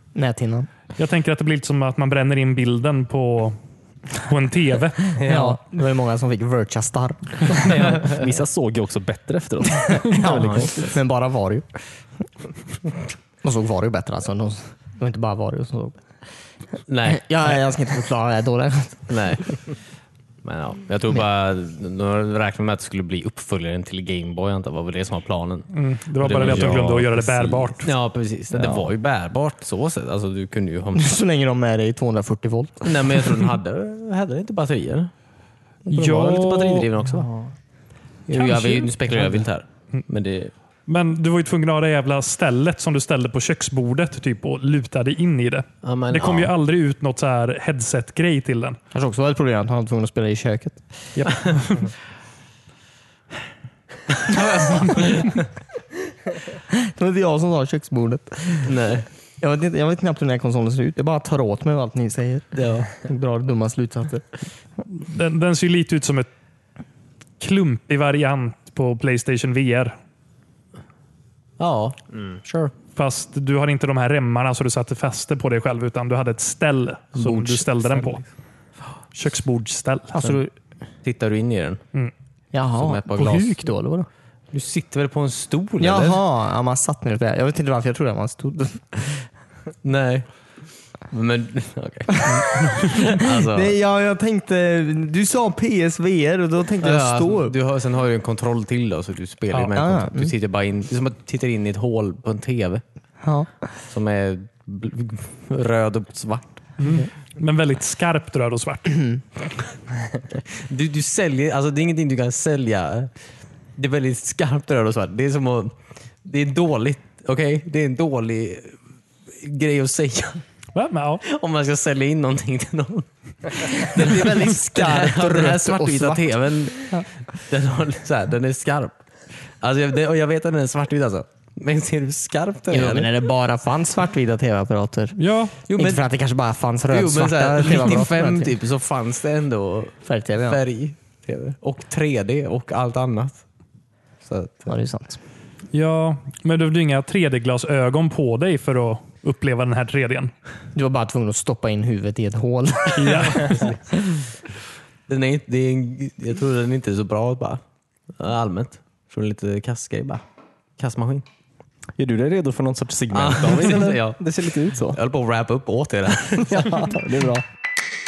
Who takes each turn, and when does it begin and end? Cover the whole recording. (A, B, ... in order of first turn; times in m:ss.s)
0:00.2-0:00.7 A
0:01.0-0:03.6 B
0:04.2-0:05.1 B
0:05.1-0:05.6 C
0:05.2-0:08.0 A
0:07.6-0:11.0 C
0:07.8-0:08.2 D
0:10.0-0:11.7 A
0:10.3-0:10.8 D
0:13.4-0:16.0 A
0:16.9-0:17.6 D
0:17.1-0:19.4 A
0:19.1-0:19.6 D
0:20.4-0:25.7 D
0:25.7-0:27.9 B
0:26.2-0:27.0 D
0:26.4-0:27.7 C
0:27.8-0:31.2 D
0:28.5-0:28.9 C
0:31.0-0:33.4 A
0:32.8-0:35.1 D
0:35.9-0:36.9 B
0:35.9-0:37.3 D
0:37.1-0:37.5 C
0:38.3-0:40.5 D
0:38.4-0:39.3 B
0:38.4-0:38.9 A
0:40.9-0:48.8 B
0:45.8-0:46.5 D
0:48.9-0:50.9 A
0:51.2-0:51.9 B
0:54.1-0:55.5 D
0:56.7-0:58.8 A
0:58.6-0:59.1 D
0:59.4-1:04.3 A
1:02.5-1:02.9 D
1:04.9-1:06.3 B
1:07.4-1:10.0 B
1:11.6-1:12.7 D
1:13.0-1:18.2 B
1:17.2-1:18.1 D
1:19.1-1:20.2 B
1:20.1-1:20.5 A
1:21.0-1:21.8 D
1:22.5-1:24.1 A
1:22.7-1:23.6 D
1:24.5-1:26.2 D
1:25.8-1:29.3 A
1:29.8-1:30.3 D
1:31.1-1:33.8 D
1:32.1-1:37.5 A
1:36.8-1:42.8 D
1:39.8-1:40.3 A
1:43.2-1:43.5 A
1:43.9-1:46.8 D
1:46.8-1:49.0 B
1:49.0-1:49.2 A
1:50.3-1:53.1 D
1:53.8-1:58.8 D
1:59.3-2:00.4 D
2:00.8-2:01.2 B
2:01.2-2:09.0 D
2:03.8-2:07.0 A
2:09.6-2:13.1 D
2:12.7-2:15.2 A
2:15.2-2:15.6 B
2:15.7-2:16.0 D
2:15.7-2:18.5 A
2:16.9-2:23.4 D
2:20.1-2:20.6 A
2:24.2-2:24.7 D
2:24.7-2:25.2 A
2:25.7-2:30.3 B
2:30.8-2:34.2 A
2:32.9-2:33.5 B
2:33.3-2:33.8 D
2:35.1-2:37.6 D
2:38.2-2:40.2 D
2:40.8-2:41.2 D
2:42.0-2:45.0 C
2:43.1-2:46.9 D
2:46.4-2:47.4 C